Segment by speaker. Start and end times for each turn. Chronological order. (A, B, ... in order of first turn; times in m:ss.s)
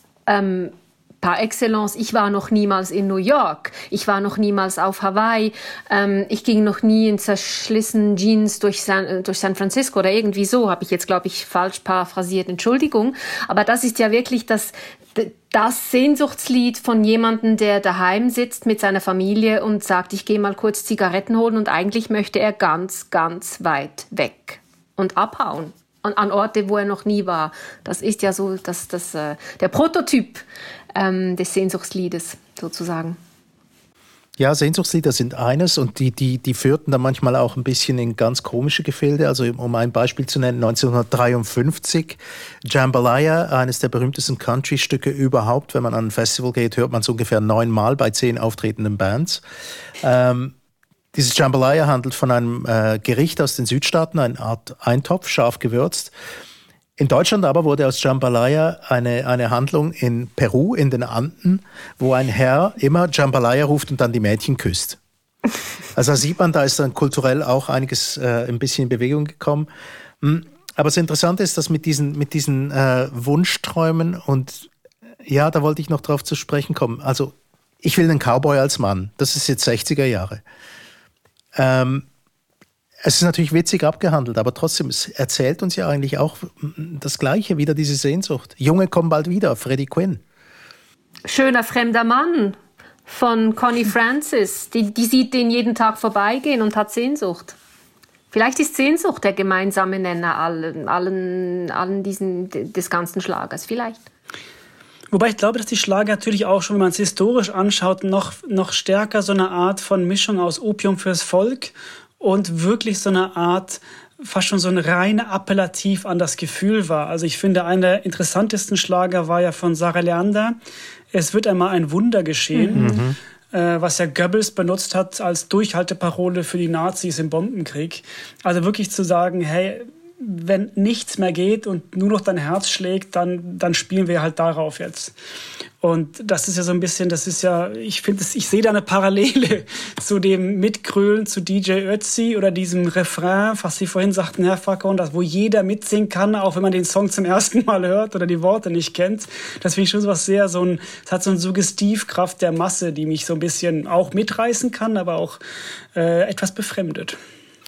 0:00.3-0:30.4 A
0:31.0-0:33.2 A
0:34.4-0:49.4 B
0:50.0-0:50.6 B
0:51.1-0:56.1 B
0:57.0-1:05.0 B
1:06.0-1:09.7 B
1:10.2-1:14.7 B
1:15.2-1:20.4 B
1:21.6-1:22.1 B
1:23.0-1:30.2 B
1:31.3-1:37.6 A
1:38.3-1:44.0 A
1:45.1-2:00.6 C
2:01.1-2:03.0 C
2:02.7-2:03.0 A
2:02.8-2:03.2 B
2:03.5-2:15.1 C
2:15.8-2:35.4 C
2:36.0-2:37.2 C